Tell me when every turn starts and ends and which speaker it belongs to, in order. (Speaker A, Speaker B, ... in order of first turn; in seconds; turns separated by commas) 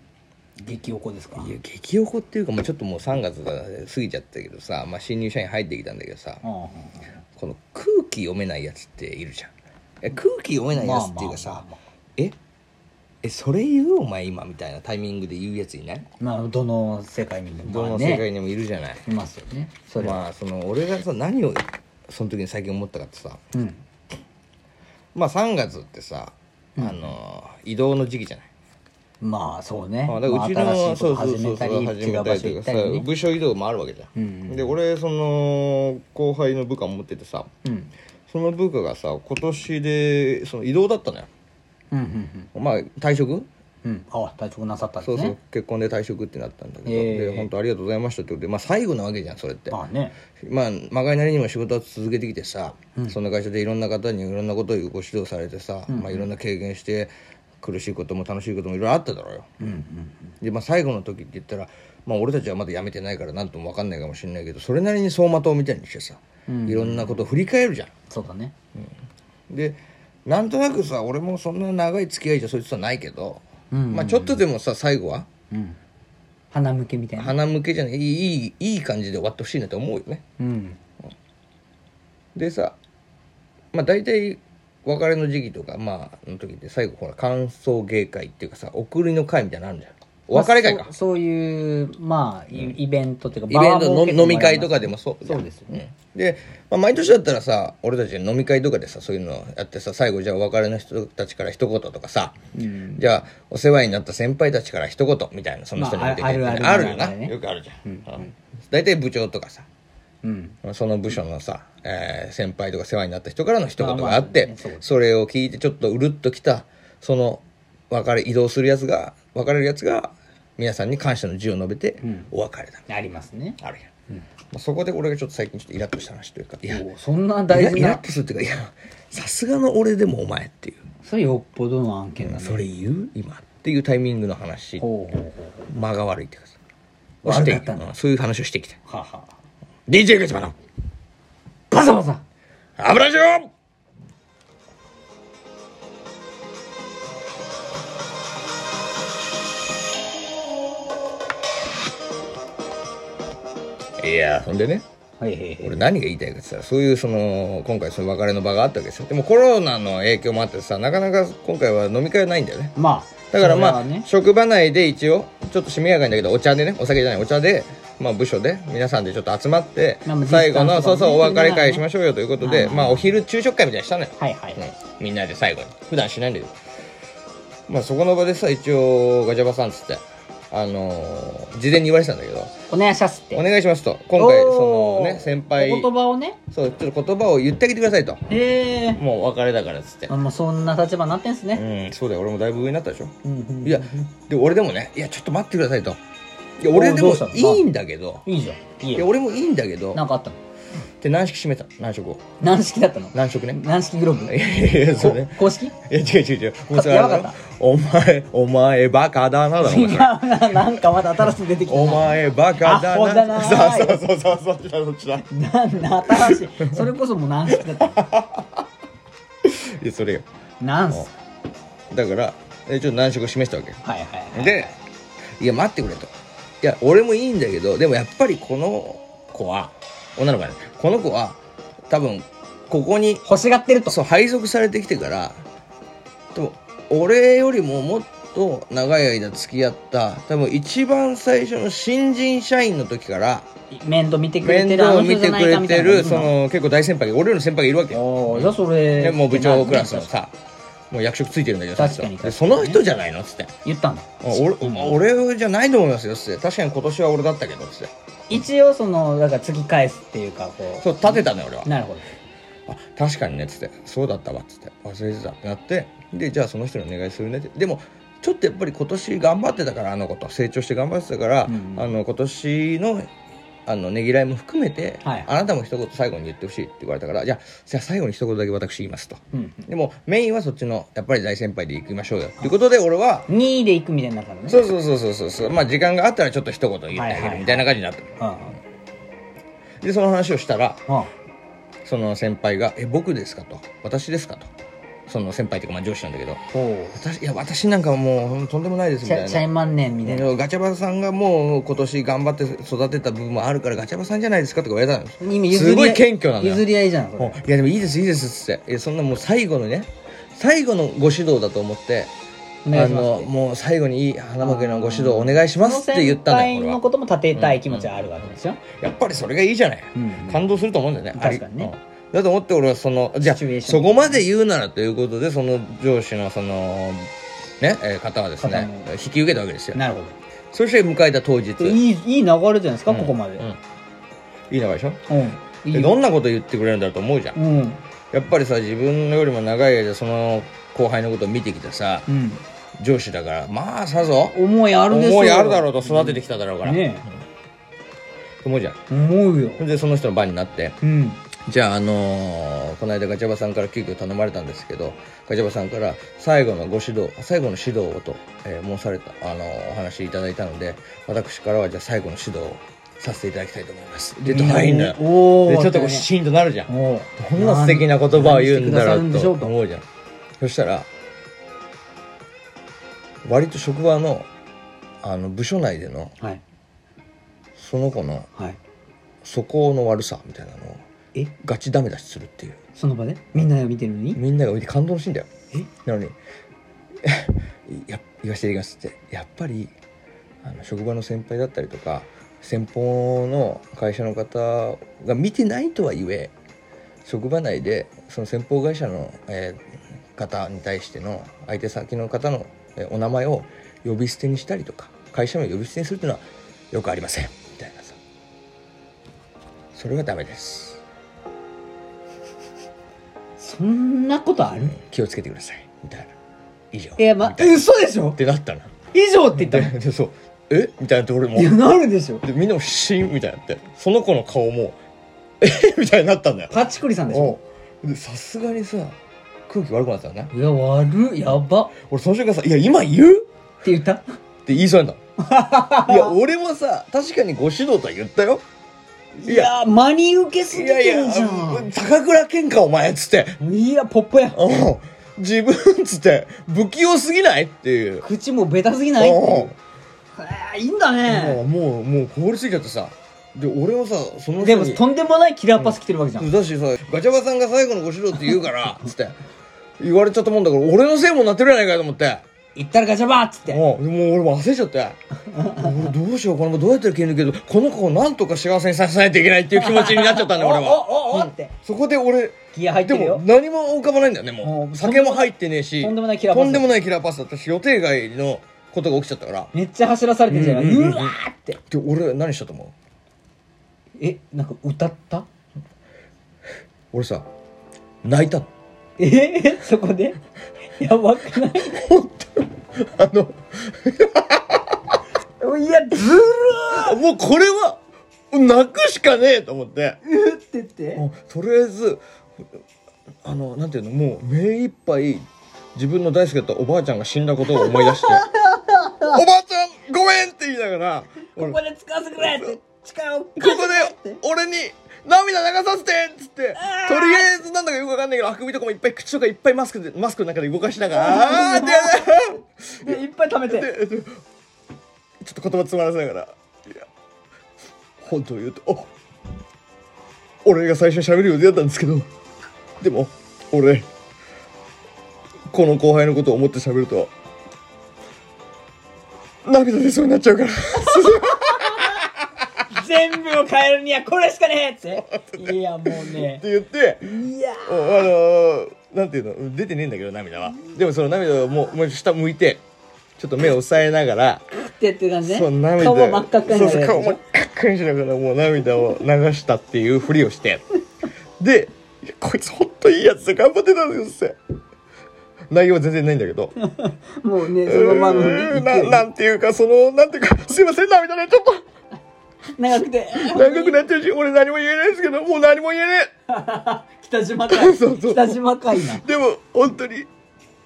Speaker A: 0.6-1.5, Speaker B: 1.4-6.4, Speaker A: 6.4-7.0, Speaker B: 7.4-9.5, Speaker B: 10.0-11.7, Speaker A: 10.7-11.8, Speaker B: 13.2-16.1, Speaker A: 16.2-18.3, Speaker B: 17.6-19.0, Speaker A: 19.1-20.2, Speaker B: 20.0-23.4, Speaker A: 23.5-23.8, Speaker B: 25.1-28.5, Speaker A: 26.8-27.1, Speaker A: 29.2-33.1, Speaker B: 30.1-37.5, Speaker A: 34.2-34.8, Speaker A: 37.6-37.9, Speaker B: 38.3-41.3, Speaker A: 41.9-42.5, Speaker B: 42.5-43.5, Speaker A: 43.8-45.4, Speaker B: 45.0-49.8, Speaker A: 46.9-47.5, Speaker A: 49.7-50.2, Speaker B: 50.4-59.5, Speaker A: 55.9-56.3, Speaker A: 59.6-60.3, Speaker B: 60.4-67.9, Speaker A: 66.5-67.2, Speaker A: 68.1-68.5, Speaker B: 69.5-75.3, Speaker A: 73.7-74.4, Speaker A: 75.5-75.8, Speaker A: 76.5-77.3, Speaker B: 77.2-80.2, Speaker A: 80.4-80.8, Speaker B: 82.3-82.8, Speaker B: 83.7-90.9, Speaker A: 90.3-95.7, Speaker B: 93.5-102.4, Speaker A: 102.5-103.0, Speaker B: 102.9-109.7, Speaker A: 105.8-107.3, Speaker A: 107.8-108.3, Speaker A: 110.2-110.6, Speaker B: 110.6-122.9, Speaker A: 113.8-114.9, Speaker A: 122.0-122.3, Speaker A: 122.9-123.6, Speaker B: 123.6-123.9, Speaker B: 124.5-126.8, Speaker A: 126.7-128.0, Speaker B: 127.5-130.8, Speaker A: 131.0-132.7, Speaker B: 132.2-134.8, Speaker A: 134.8-135.7, Speaker B: 135.7-136.6, Speaker A: 137.2-137.9, Speaker B: 137.2-138.8, Speaker A: 138.9-139.3, Speaker B: 139.9-140.6, Speaker A: 141.7-142.2, Speaker B: 142.8-143.5, Speaker B: 154.0-154.8, Speaker A: 155.2-155.8, Speaker B: 155.6-162.8, Speaker A: 162.8-164.1, Speaker B: 163.3-176.6, Speaker A: 170.1-171.8, Speaker A: 172.4-173.2, Speaker A: 174.2-174.6, Speaker B: 177.7-182.5, Speaker A: 182.7-183.4, Speaker B: 183.3-185.9, Speaker A: 184.2-186.4, Speaker B: 186.5-188.2, Speaker A: 188.3-189.0, Speaker B: 188.9-190.1, Speaker A: 190.1-191.6, Speaker B: 191.5-196.0, Speaker A: 193.2-194.1, Speaker B: 196.6-198.3, Speaker A: 196.7-197.7, Speaker A: 198.3-199.1, Speaker B: 198.9-200.0, Speaker A: 199.9-200.4, Speaker B: 201.0-202.2, Speaker A: 202.4-204.4, Speaker B: 203.1-203.6, Speaker B: 204.3-210.5, Speaker A: 204.9-205.8, Speaker A: 206.7-207.3, Speaker A: 209.6-214.0, Speaker B: 211.7-215.3, Speaker A: 215.2-218.1, Speaker B: 216.1-216.7, Speaker B: 217.6-218.6, Speaker B: 219.4-220.3, Speaker A: 220.6-221.1, Speaker B: 221.9-223.8, Speaker A: 223.8-224.8, Speaker B: 224.3-224.7, Speaker B: 225.4-231.4, Speaker B: 231.9-233.2, Speaker A: 233.2-233.9, Speaker B: 233.9-235.4, Speaker B: 236.3-243.5, Speaker A: 243.7-246.3, Speaker B: 244.4-250.3, Speaker A: 247.9-250.1, Speaker B: 250.9-253.5, Speaker A: 251.8-252.8, Speaker A: 253.6-255.0, Speaker B: 254.2-257.9, Speaker A: 258.3-262.1, Speaker B: 260.8-261.7, Speaker B: 262.7-273.1, Speaker A: 271.5-271.9, Speaker B: 273.7-283.3, Speaker A: 275.0-275.3, Speaker A: 279.3-279.7, Speaker A: 283.3-284.7, Speaker B: 284.5-288.1, Speaker A: 286.9-287.7, Speaker A: 288.2-288.6, Speaker B: 289.8-290.8, Speaker A: 290.9-291.1, Speaker B: 291.9-294.5, Speaker B: 295.1-296.4, Speaker A: 296.5-297.0, Speaker B: 296.9-299.5, Speaker A: 299.0-300.3, Speaker B: 300.0-306.6, Speaker A: 305.2-307.4, Speaker B: 307.2-312.1, Speaker A: 312.6-313.3, Speaker B: 312.7-316.8, Speaker A: 314.4-318.6, Speaker B: 317.4-329.8, Speaker A: 319.9-320.4, Speaker A: 321.1-321.7, Speaker A: 323.3-324.2, Speaker A: 328.4-328.9, Speaker A: 329.8-330.2, Speaker B: 330.5-331.8, Speaker A: 331.6-333.5, Speaker B: 332.9-333.6, Speaker B: 334.5-335.0, Speaker A: 335.1-335.9, Speaker B: 335.7-337.4, Speaker A: 337.4-337.8, Speaker B: 338.1-342.1, Speaker A: 342.1-342.4, Speaker B: 342.8-347.2, Speaker A: 344.3-347.1, Speaker B: 348.4-348.8, Speaker A: 348.9-349.6, Speaker B: 349.6-350.8, Speaker A: 350.8-351.2, Speaker B: 351.4-369.8, Speaker A: 364.2-366.1, Speaker A: 366.7-369.5, Speaker B: 370.4-370.9, Speaker B: 373.2-374.3, Speaker B: 375.0-376.1, Speaker B: 377.6-378.3, Speaker B: 379.2-380.8, Speaker B: 381.4-382.6, Speaker A: 382.8-384.2, Speaker B: 384.1-385.3, Speaker B: 385.8-386.2, Speaker B: 387.0-389.8, Speaker B: 390.4-396.3, Speaker B: 397.1-408.0, Speaker B: 409.7-410.8, Speaker A: 413.4-414.8, Speaker B: 414.6-416.1, Speaker B: 416.7-418.7, Speaker A: 417.0-418.2, Speaker A: 418.9-419.7, Speaker B: 419.4-421.6, Speaker A: 421.4-422.2, Speaker B: 422.2-424.8, Speaker B: 425.4-426.6, Speaker A: 426.5-427.4, Speaker B: 427.1-429.0, Speaker B: 429.5-430.3, Speaker A: 430.3-431.7, Speaker B: 431.8-433.3, Speaker A: 433.6-434.0, Speaker B: 434.5-435.0, Speaker A: 435.2-436.2, Speaker B: 435.8-438.4, Speaker A: 439.2-441.7, Speaker B: 439.3-439.5, Speaker B: 440.5-443.4, Speaker A: 443.4-444.5, Speaker B: 444.3-448.1, Speaker A: 448.0-449.5, Speaker B: 449.0-449.6, Speaker A: 450.1-451.4, Speaker B: 451.1-454.8, Speaker A: 454.4-456.3, Speaker B: 455.6-459.2, Speaker B: 459.8-462.2, Speaker A: 462.6-463.6, Speaker B: 463.5-479.5, Speaker A: 465.3-465.9, Speaker A: 469.6-471.5, Speaker A: 472.5-473.2, Speaker A: 474.4-476.7, Speaker A: 479.5-481.6, Speaker B: 480.3-482.7, Speaker A: 484.0-485.3, Speaker B: 486.9-487.3, Speaker B: 488.0-488.5, Speaker A: 489.0-490.2, Speaker A: 490.8-491.8, Speaker B: 491.5-494.9, Speaker A: 495.4-497.0, Speaker B: 496.7-497.8, Speaker B: 498.3-500.0, Speaker A: 500.0-501.0, Speaker B: 500.9-502.0, Speaker B: 503.2-508.3, Speaker A: 507.6-509.2, Speaker B: 509.0-511.6, Speaker A: 511.3-514.2, Speaker B: 512.2-512.6, Speaker B: 513.4-524.2, Speaker A: 516.6-517.3, Speaker A: 520.9-522.2, Speaker A: 522.8-523.7, Speaker B: 525.2-526.9, Speaker B: 528.0-528.9, Speaker B: 530.5-532.1, Speaker B: 532.8-533.9, Speaker B: 535.5-537.1, Speaker B: 539.5-542.2, Speaker A: 540.8-542.0, Speaker A: 542.7-546.4, Speaker B: 545.1-547.1, Speaker A: 547.0-548.1, Speaker B: 547.7-552.6, Speaker B: 553.2-554.5, Speaker A: 554.7-557.2, Speaker B: 555.2-560.6, Speaker B: 561.4-564.4, Speaker B: 565.5-566.5, Speaker A: 566.6-569.1, Speaker B: 567.6-571.6, Speaker A: 572.5-573.8, Speaker B: 573.2-576.1, Speaker A: 576.3-579.0, Speaker B: 577.5-580.1